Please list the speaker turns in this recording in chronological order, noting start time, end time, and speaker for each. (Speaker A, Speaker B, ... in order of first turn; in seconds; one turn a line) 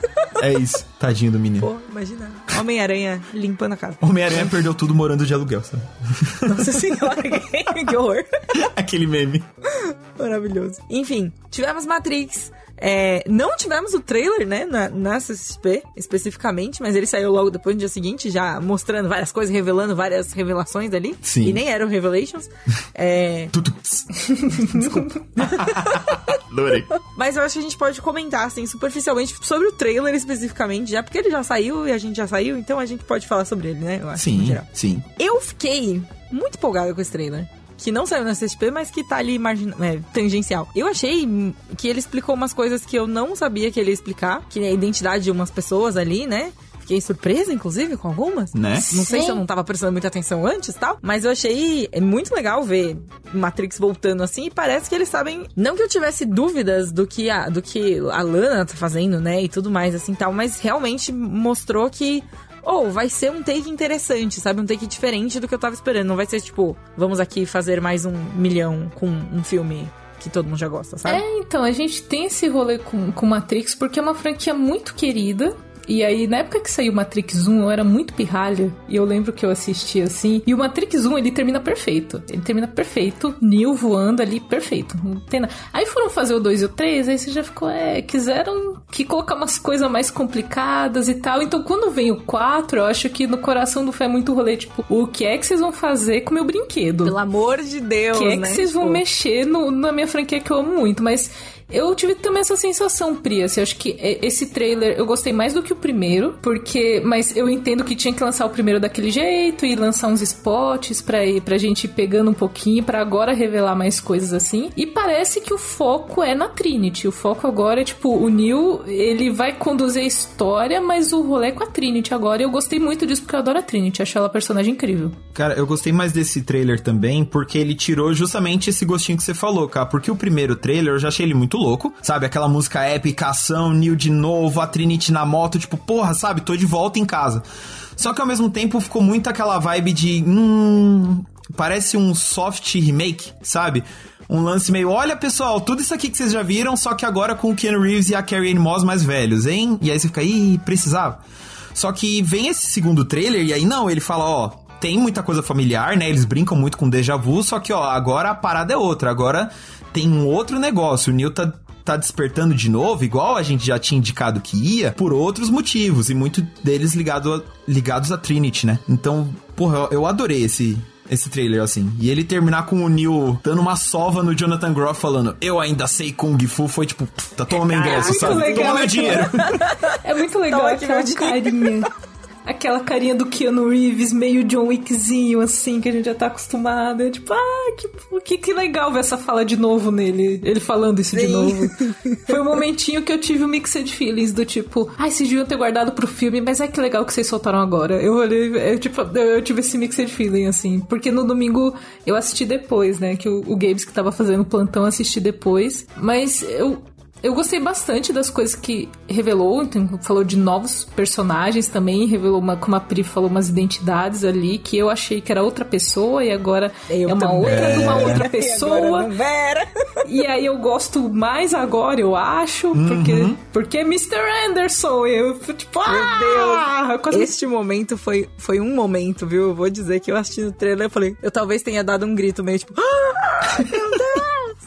Speaker A: 0.4-1.7
Speaker B: 1.6-4.0
Speaker A: 4.0-6.9
Speaker B: 6.4-8.3
Speaker A: 8.5-9.5
Speaker B: 9.7-23.5
Speaker A: 21.2-21.6
Speaker A: 23.5-24.1
Speaker C: 24.3-25.1
Speaker B: 24.7-26.4
Speaker A: 25.4-26.9
Speaker B: 27.0-71.2
Speaker A: 34.1-35.0
Speaker A: 48.5-48.9
Speaker C: 48.9-49.4
Speaker C: 71.0-97.2
Speaker B: 97.0-99.0
Speaker C: 98.1-125.2
Speaker A: 125.3-137.4
Speaker A: 138.0-151.2
Speaker A: 151.7-179.5
Speaker B: 177.6-181.8
Speaker C: 177.8-181.9
Speaker C: 182.4-219.1
Speaker B: 191.1-192.3
Speaker B: 216.9-219.7
Speaker A: 217.4-218.2
Speaker C: 220.0-227.3
Speaker A: 222.7-223.4
Speaker B: 225.8-234.5